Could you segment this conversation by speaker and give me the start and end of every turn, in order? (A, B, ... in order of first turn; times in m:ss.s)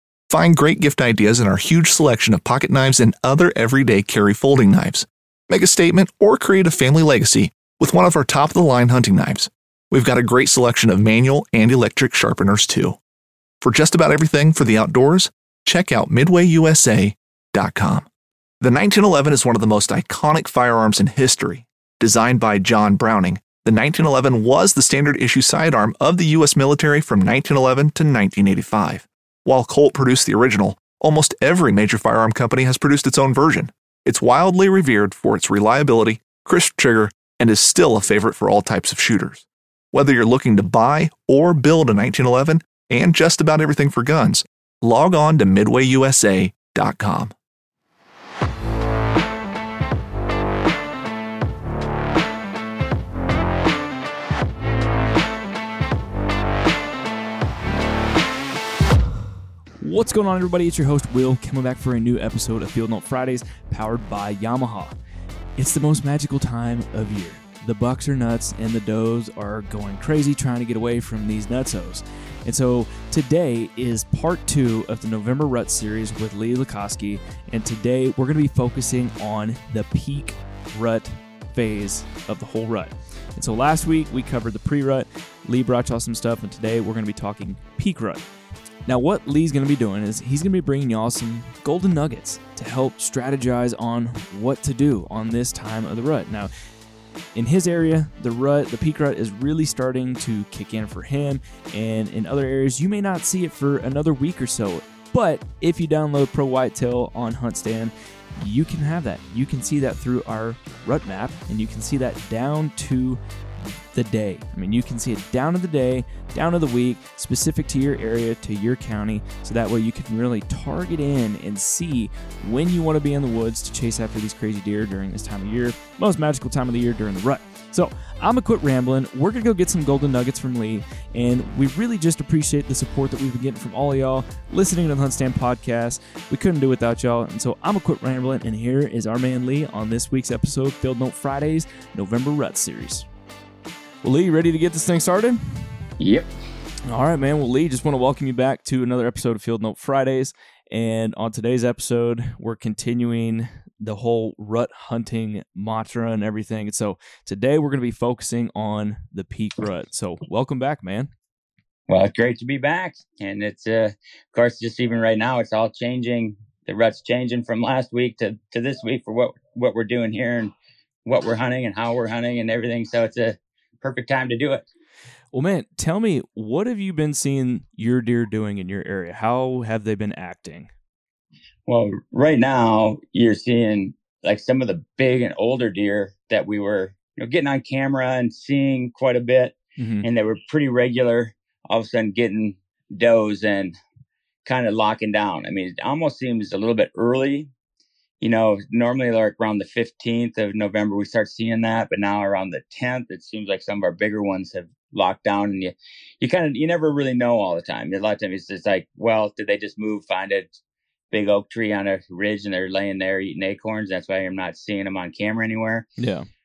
0:00.3-0:13.0 A
0:13.6-0:18.0 A
0:18.6-0:47.3 A
0:59.8-1:04.9 B
1:05.6-1:28.2 B
1:28.9-1:36.5 B
1:37.3-1:53.2 B
1:53.9-2:23.0 B
2:24.0-2:25.8 B
2:26.0-2:26.3 C
2:26.9-2:41.1 B
2:41.9-2:50.5 C
2:51.0-2:54.6 C
2:55.3-3:00.7 B
3:01.7-3:13.7 C
3:09.8-3:10.0 B
3:14.4-3:17.5 C
3:18.2-3:30.6 C
3:31.1-3:35.8 C
3:36.0-3:36.3 B